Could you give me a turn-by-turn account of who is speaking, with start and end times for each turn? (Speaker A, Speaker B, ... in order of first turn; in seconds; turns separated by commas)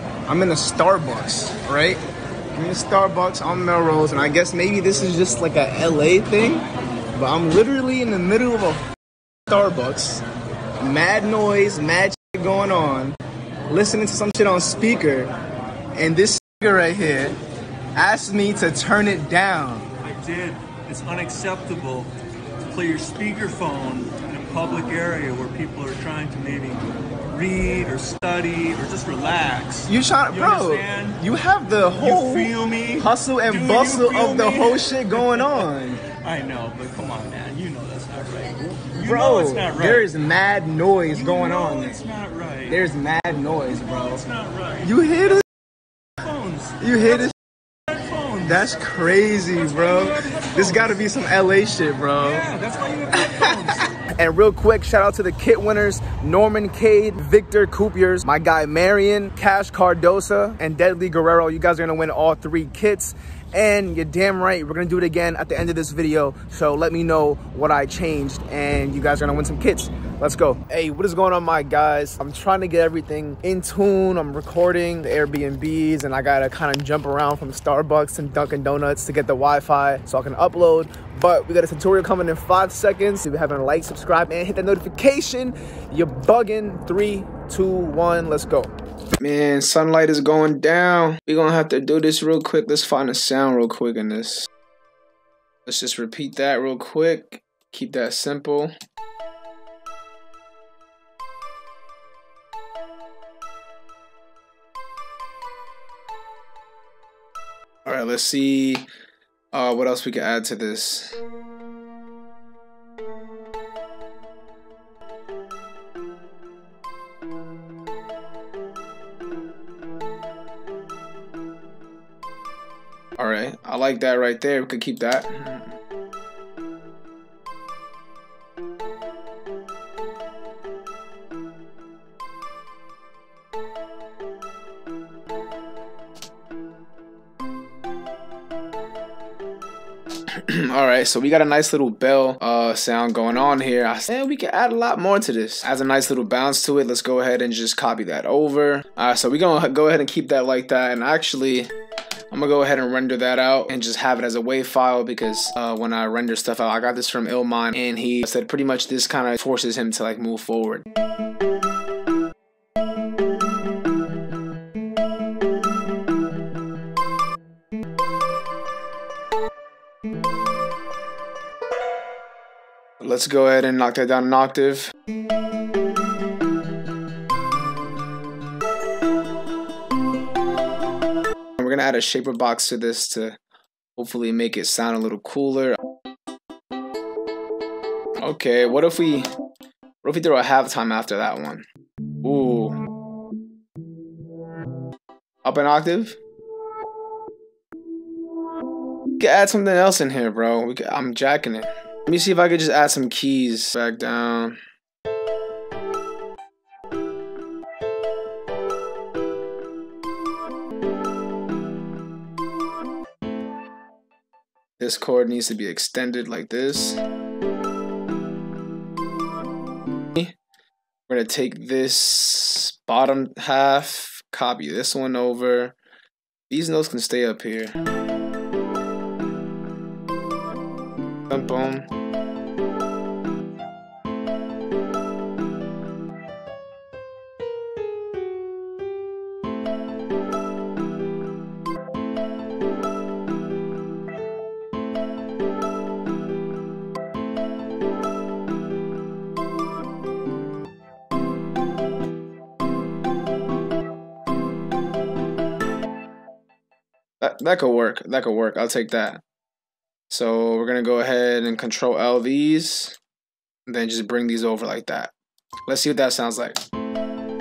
Speaker A: 0.2-8.8, Speaker A: 9.5-10.2, Speaker A: 10.8-13.2, Speaker A: 13.7-15.3, Speaker A: 15.9-17.4, Speaker A: 17.9-19.9, Speaker B: 20.0-31.2, Speaker A: 29.9-36.0, Speaker B: 31.9-40.1, Speaker A: 38.9-42.0, Speaker B: 41.1-42.9, Speaker A: 42.7-44.2, Speaker B: 43.8-45.4, Speaker A: 44.8-45.4, Speaker B: 46.2-47.2, Speaker A: 46.8-47.3, Speaker B: 47.9-51.1, Speaker A: 48.4-52.4, Speaker B: 52.2-54.1, Speaker A: 53.2-94.5, Speaker A: 95.7-98.7, Speaker A: 107.8-108.9, Speaker A: 109.5-111.2, Speaker A: 123.2-125.8, Speaker A: 140.3-151.7, Speaker A: 152.3-160.8, Speaker A: 173.0-174.9, Speaker A: 181.6-183.4, Speaker A: 183.9-185.8, Speaker A: 188.2-189.2, Speaker A: 190.0-191.6, Speaker A: 192.2-192.8, Speaker A: 195.4-196.2, Speaker A: 199.2-204.6, Speaker A: 214.8-217.0, Speaker A: 221.1-225.7, Speaker A: 226.5-227.8, Speaker A: 231.3-231.9, Speaker A: 257.2-259.2, Speaker A: 260.1-263.0, Speaker A: 263.6-265.1, Speaker A: 265.7-266.6